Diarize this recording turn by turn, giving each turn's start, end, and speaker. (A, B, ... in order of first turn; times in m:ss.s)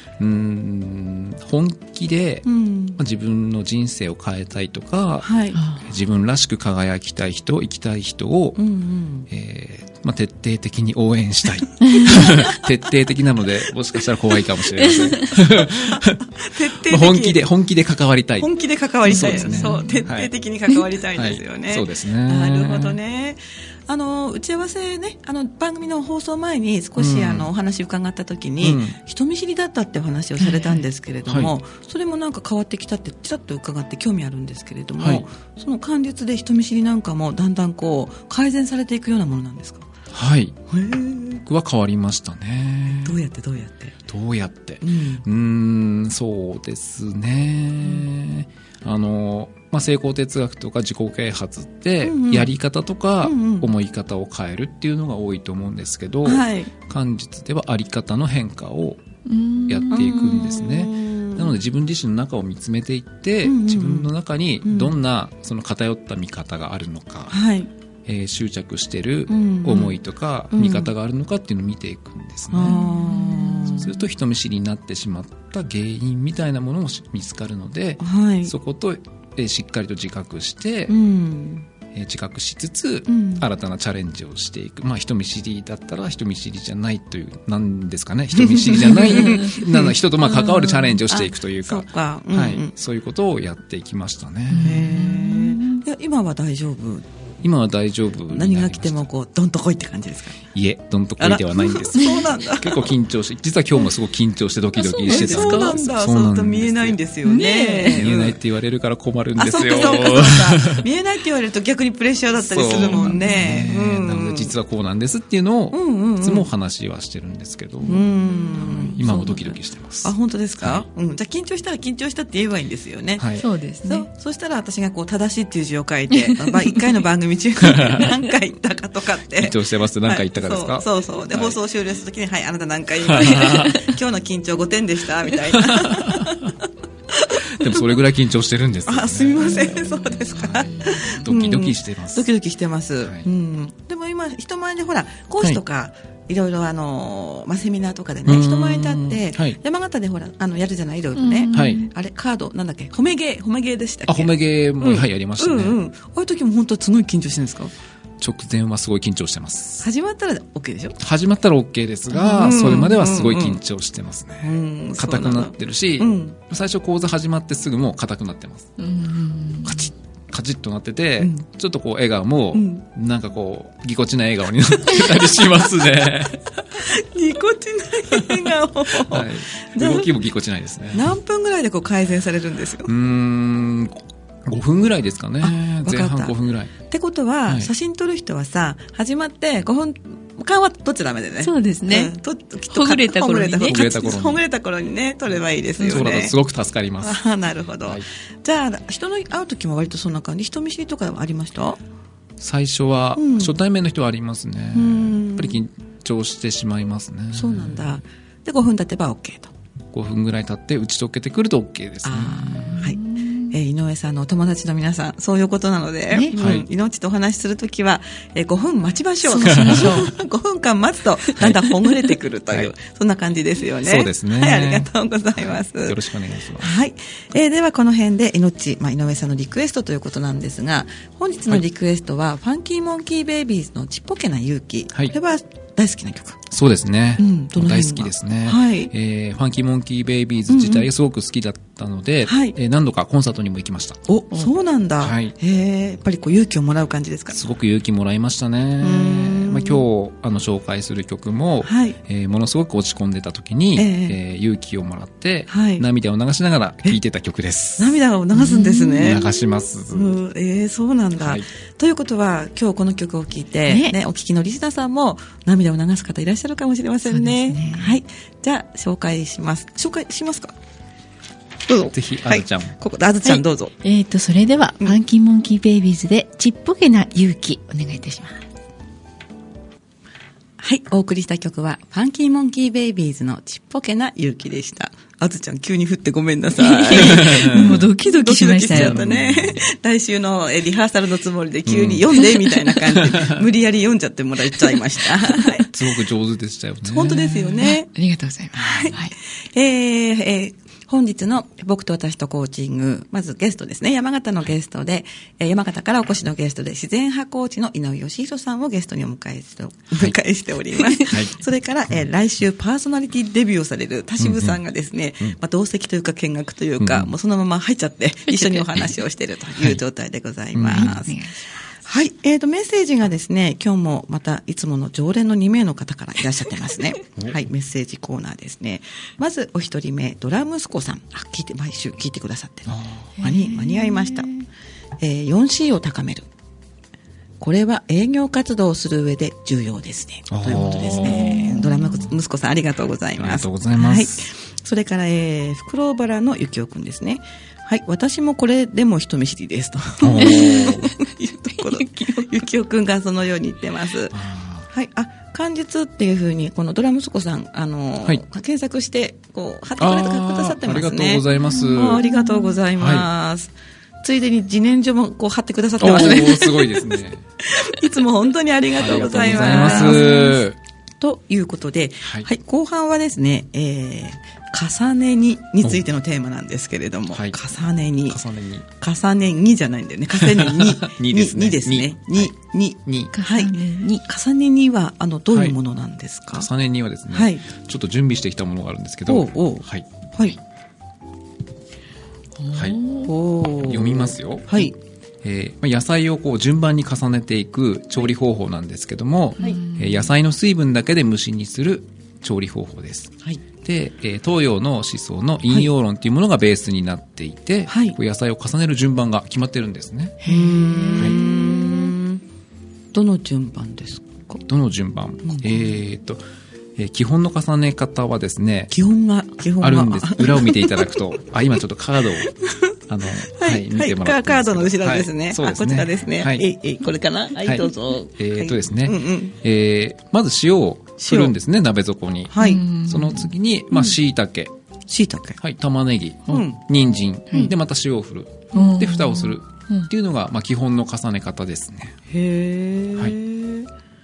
0:00.2-0:02.5 A
0:02.5-0:03.0 B
0:03.0-0:05.3 A
0:05.2-0:05.6 B
0:05.6-0:05.8 C
0:05.8-0:08.6 A
0:08.6-0:09.3 B
0:09.3-0:18.5 A
0:11.8-0:12.3 C
0:12.0-0:12.6 B
0:14.9-0:15.3 C
0:15.5-0:17.4 B
0:18.4-0:39.9 B
0:19.0-0:20.3 A
0:19.1-0:20.0 C
0:21.2-0:23.0 A
0:27.0-0:27.5 A
0:28.6-0:29.0 A
0:30.4-0:30.8 C
0:31.3-0:31.5 A
0:35.0-0:35.2 A
0:40.1-0:40.6 A
0:40.7-0:41.4 B
0:41.5-0:43.2 A
0:42.9-0:44.0 B
0:44.1-0:59.0 A
0:44.8-0:45.2 B
0:52.0-0:52.5 B
0:53.2-0:53.7 B
0:56.2-0:56.7 B
0:59.3-1:00.2 C
0:59.7-1:07.4 A
0:59.9-1:01.5 B
1:03.4-1:04.1 B
1:04.6-1:05.0 B
1:07.3-1:07.7 B
1:08.1-1:12.8 A
1:09.3-1:10.0 B
1:10.5-1:10.9 B
1:12.5-1:14.0 B
1:12.7-1:13.9 C
1:13.7-1:21.0 A
1:18.0-1:18.6 B
1:20.9-1:21.7 B
1:21.9-1:34.8 A
1:23.1-1:23.5 B
1:28.4-1:32.7 B
1:34.5-1:35.8 C
1:34.6-1:37.0 B
1:37.4-1:39.1 A
1:38.3-1:40.4 B
1:40.5-1:47.0 A
1:41.2-1:42.9 B
1:44.8-1:45.8 C
1:44.9-1:48.4 B
1:47.2-1:48.0 C
1:47.9-1:50.9 A
1:49.4-1:54.6 B
1:52.4-2:00.8 A
1:52.9-1:53.4 C
1:55.7-1:56.5 B
1:57.8-2:17.9 B
2:03.2-2:03.5 A
2:03.4-2:04.1 C
2:06.3-2:06.6 C
2:07.6-2:08.1 A
2:09.4-2:11.6 A
2:13.0-2:13.9 A
2:15.5-2:16.5 A
2:17.5-2:22.3 A
2:18.9-2:37.7 B
2:28.3-2:29.6 A
2:31.2-2:31.9 C
2:31.5-2:31.8 A
2:34.1-2:35.8 A
2:38.2-2:39.9 A
2:39.8-2:41.0 B
2:41.0-2:48.8 A
2:42.1-2:42.7 C
2:42.3-2:43.6 B
2:44.4-2:46.4 B
2:48.8-2:49.9 C
2:49.6-2:56.8 A
2:51.2-2:51.4 B
2:52.5-2:52.8 B
2:56.8-3:00.1 B
2:58.1-3:01.1 A
3:00.9-3:02.9 B
3:02.8-3:06.7 A
3:05.4-3:16.4 B
3:07.5-3:07.7 A
3:11.4-3:12.2 C
3:12.7-3:14.0 C
3:13.6-3:14.4 A
3:15.8-3:17.2 A
3:17.0-3:21.8 B
3:22.4-3:27.9 A
3:23.2-3:23.6 B
3:24.7-3:25.6 B
3:27.3-3:29.5 B
3:29.9-3:32.8 A
3:32.0-3:46.0 B
3:32.4-3:33.5 C
3:36.4-3:36.7 A
3:39.3-3:40.1 C
3:39.4-3:40.1 A
3:41.4-3:41.6 A
3:43.8-3:46.7 A
3:46.6-3:56.4 B
3:56.5-4:04.0 A
3:57.2-3:58.9 B
4:00.5-4:00.9 B
4:02.3-4:02.6 B
4:04.1-4:07.4 B
4:05.0-4:05.3 A
4:07.3-4:18.0 A
4:08.8-4:09.8 B
4:11.6-4:12.0 B
4:13.8-4:14.2 B
4:15.5-4:15.9 B
4:17.8-4:19.2 B
4:18.4-4:19.2 C
4:19.0-4:20.2 A
4:19.9-4:30.6 B
4:21.2-4:21.5 A
4:23.7-4:24.0 C
4:27.1-4:28.0 C
4:31.7-4:33.7 B
4:31.9-4:32.8 A
4:33.2-4:38.4 C
4:40.6-4:55.7 B
4:46.6-4:49.0 C
4:46.9-4:47.9 A
4:48.7-4:49.6 A
4:51.7-4:52.2 A
4:52.9-4:53.4 A
4:55.7-4:57.4 A
4:56.8-4:57.9 B
4:57.4-4:59.1 C
4:58.5-4:59.0 B
4:59.5-5:21.2 B
5:11.0-5:11.4 A
5:14.2-5:14.6 A
5:16.8-5:17.1 A
5:20.5-5:21.0 A
5:20.7-5:21.5 C
5:21.8-5:34.3 B
5:32.7-5:33.1 A
5:33.2-5:34.5 C
5:35.0-5:36.3 B
5:37.4-6:03.5 B
5:40.3-5:41.5 A
5:40.7-5:42.1 C
5:43.2-5:44.3 A
5:50.0-5:50.9 A
5:50.2-5:50.8 C
5:51.6-5:52.3 C
5:54.1-5:54.7 A
5:59.8-6:02.1 A
6:01.5-6:02.6 C
6:02.8-6:03.1 A
6:04.0-6:10.4 B
6:05.8-6:07.2 A
6:08.7-6:10.6 A
6:09.4-6:10.3 C
6:11.0-6:18.2 B
6:12.0-6:12.3 A
6:17.1-6:17.4 A
6:18.1-6:18.7 A
6:18.8-6:26.5 B
6:20.2-6:22.3 A
6:22.8-6:23.1 A
6:23.1-6:24.0 C
6:25.3-6:25.6 A
6:26.3-6:29.9 A
6:27.1-6:27.4 B
6:29.1-6:30.4 B
6:32.4-6:33.1 C
6:32.5-6:32.8 A
6:33.0-6:34.8 B
6:33.6-6:34.7 A
6:35.2-6:50.2 A
6:39.4-6:40.1 C
6:47.7-6:48.0 B
6:50.2-6:51.9 C
6:50.2-6:52.2 B
6:52.9-6:54.4 B
6:54.5-6:56.2 A
6:55.2-6:55.8 B
6:56.8-6:58.7 A
6:58.7-7:01.0 B
6:59.6-7:02.3 A
7:02.3-7:02.7 B
7:02.9-7:06.5 A
7:03.3-7:09.4 B
7:07.4-7:14.5 A
7:11.0-7:11.3 B
7:12.3-7:12.6 B
7:12.4-7:13.3 C
7:14.9-7:15.4 B
7:15.4-7:22.0 A
7:16.3-7:16.6 B
7:18.5-7:19.9 C
7:22.1-7:23.7 B